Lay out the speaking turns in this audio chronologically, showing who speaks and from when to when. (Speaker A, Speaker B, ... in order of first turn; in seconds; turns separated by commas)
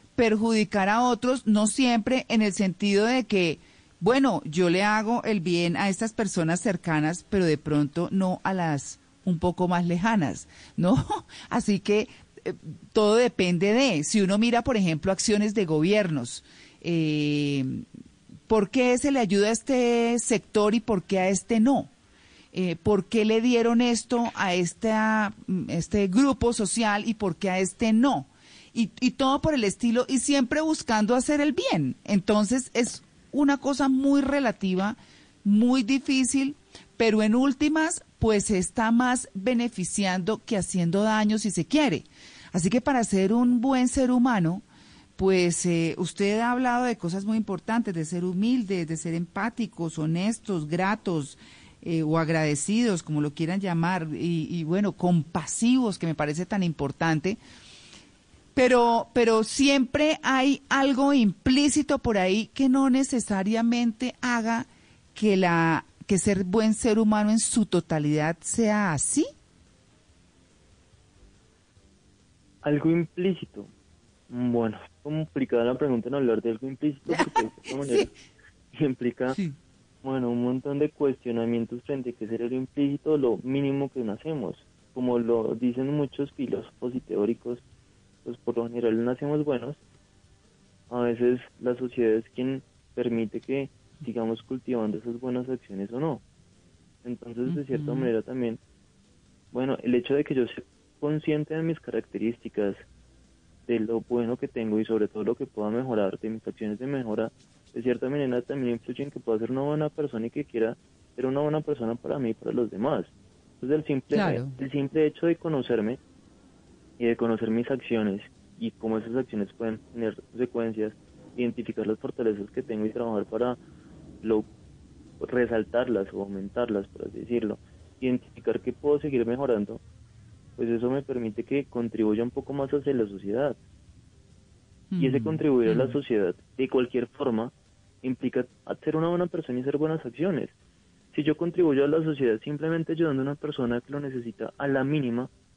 Speaker A: 0.1-17.9, Speaker A: 18.5-21.9, Speaker A: 22.5-44.6, Speaker A: 45.2-57.4, Speaker A: 58.5-69.3, Speaker B: 72.6-73.7, Speaker B: 74.3-78.1, Speaker A: 77.1-78.1, Speaker B: 78.7-79.4, Speaker B: 80.0-87.6, Speaker B: 88.2-89.8, Speaker B: 90.9-96.2, Speaker B: 97.0-98.6, Speaker A: 97.5-98.1, Speaker B: 99.5-102.8, Speaker B: 103.7-116.0, Speaker A: 114.1-114.5, Speaker B: 117.0-123.6, Speaker B: 125.2-129.8, Speaker B: 130.6-133.6, Speaker A: 134.9-136.0, Speaker B: 135.0-137.5, Speaker B: 138.0-140.5, Speaker B: 141.1-145.3